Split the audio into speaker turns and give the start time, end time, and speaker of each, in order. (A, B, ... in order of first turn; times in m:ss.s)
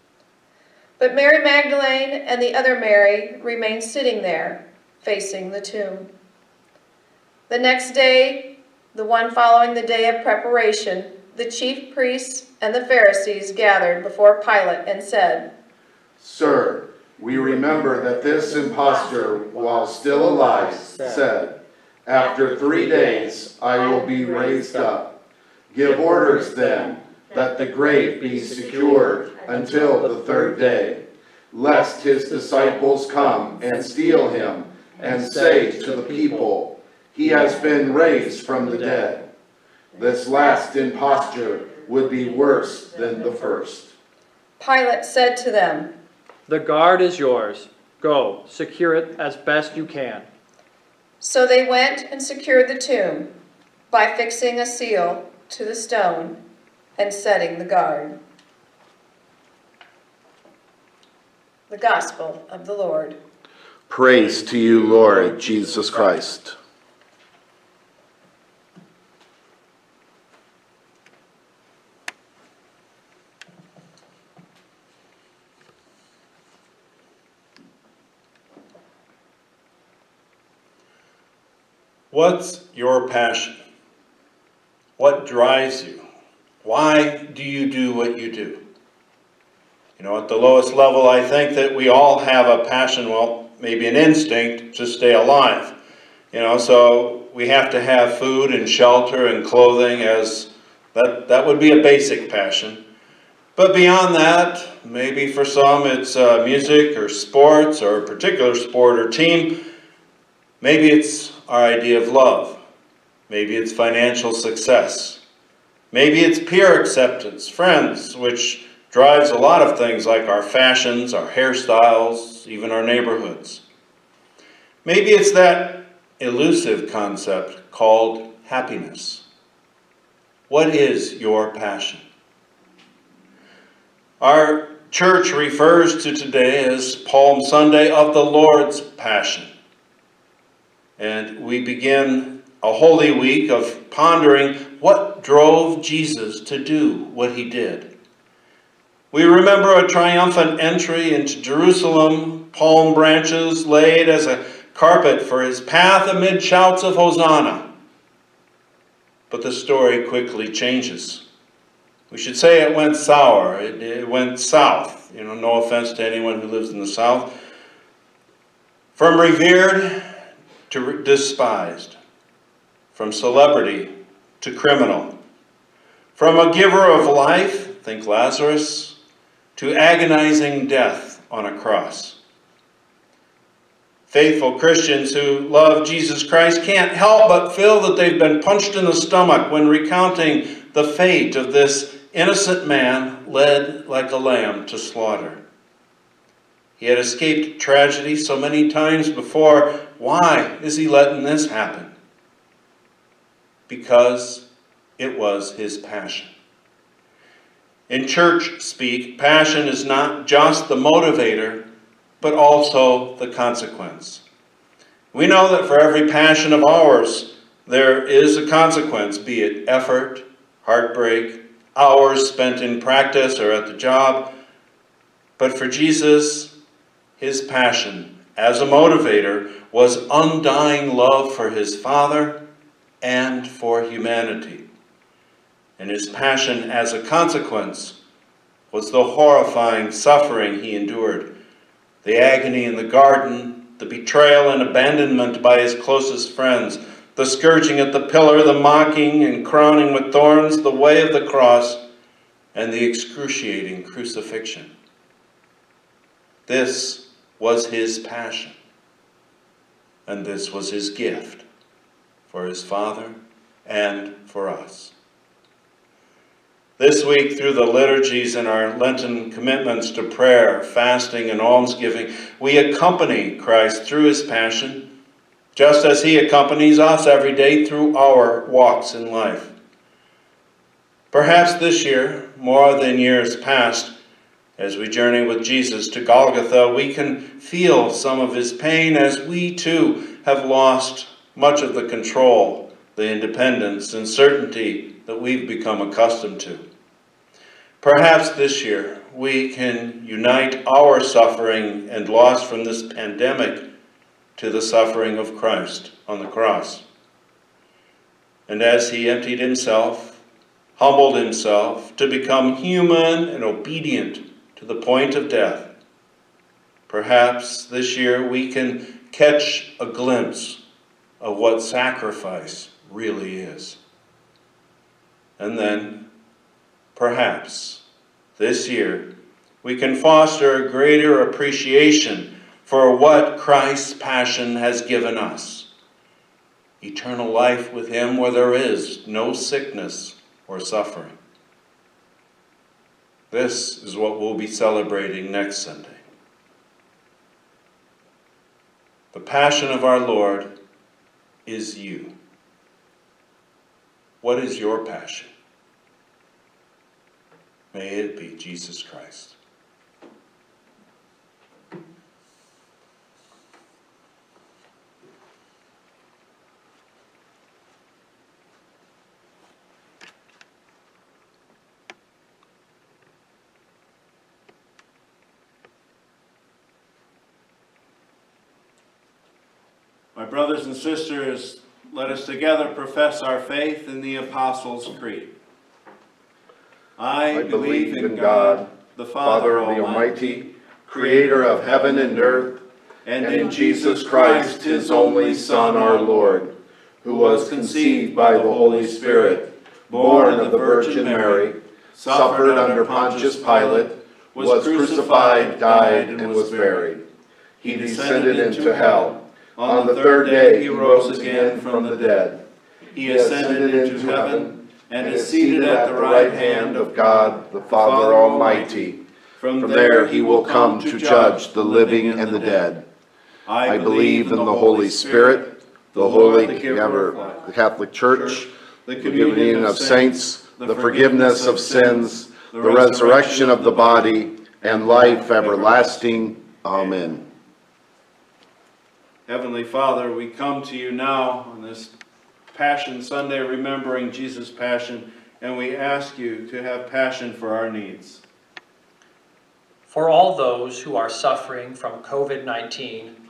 0:01.0-0:06.1 A
0:07.5-0:15.5 A
0:16.2-0:25.1 B
0:19.3-0:21.2 C
0:24.6-0:24.9 C
0:25.7-0:39.2 B
0:25.8-0:26.9 C
0:27.6-0:30.9 C
0:32.3-0:32.5 C
0:35.0-0:36.5 C
0:37.2-0:39.1 C
0:39.9-0:43.9 B
0:44.6-0:45.9 A
0:46.5-0:50.3 C
0:51.2-0:53.3 A
0:53.9-0:56.4 A
0:57.0-0:58.2 A
1:01.7-1:03.2 A
1:03.9-1:06.5 B
1:04.1-1:06.2 D
1:22.1-1:23.6 D
1:25.0-1:26.0 D
1:26.6-1:28.6 D
1:30.0-1:35.8 D
1:36.3-1:42.8 D
1:43.6-1:49.6 D
1:50.6-1:52.6 D
1:53.3-1:55.2 D
1:55.9-2:03.6 D
2:04.8-2:09.2 D
2:10.5-2:12.0 D
2:14.2-2:19.5 D
2:21.0-2:27.9 D
2:29.1-2:37.7 D
2:39.3-2:41.2 D
2:42.1-2:47.3 D
2:48.9-2:50.0 D
2:50.7-2:52.0 D
2:52.9-2:55.1 D
2:56.1-2:59.0 D
2:59.6-3:02.2 D
3:04.1-3:15.4 D
3:16.8-3:21.9 D
3:23.7-3:24.4 D
3:25.0-3:26.3 D
3:27.9-3:31.6 D
3:32.2-3:34.2 D
3:35.1-3:44.3 D
3:45.4-3:46.5 D
3:47.2-3:52.4 D
3:53.0-3:54.6 D
3:55.8-3:58.0 D
3:58.7-4:01.3 D
4:02.0-4:11.8 D
4:12.5-4:14.7 D
4:16.5-4:18.6 D
4:20.1-4:21.4 D
4:22.3-4:24.9 D
4:26.8-4:34.9 D
4:35.5-4:39.5 D
4:41.1-4:43.9 D
4:44.6-4:56.6 D
4:57.8-5:03.6 D
5:04.4-5:06.8 D
5:08.5-5:10.2 D
5:10.8-5:15.7 D
5:16.9-5:20.6 D
5:21.2-5:23.8 D
5:25.4-5:26.1 D
5:26.9-5:27.8 D
5:28.4-5:29.1 D
5:29.6-5:35.7 D
5:36.8-5:41.2 D
5:43.3-5:46.0 D
5:49.1-5:50.5 D
5:51.4-5:52.1 D
5:54.2-5:55.3 D
5:57.7-5:59.4 D
6:20.1-6:25.3 D
6:27.0-6:30.2 D
6:27.3-6:28.7 B
6:29.2-6:32.6 B
6:30.9-6:32.4 D
6:33.0-6:36.5 D
6:33.2-6:36.5 B
6:37.0-6:47.0 B
6:37.0-6:46.9 D
6:47.6-6:52.2 D
6:47.6-6:52.4 B
6:52.9-7:02.7 D
6:53.0-6:59.0 B
6:59.6-7:02.8 B
7:03.5-7:07.5 D
7:03.6-7:17.2 B
7:08.1-7:17.1 D
7:19.3-7:21.9 D
7:22.5-7:28.2 D
7:29.9-7:33.1 C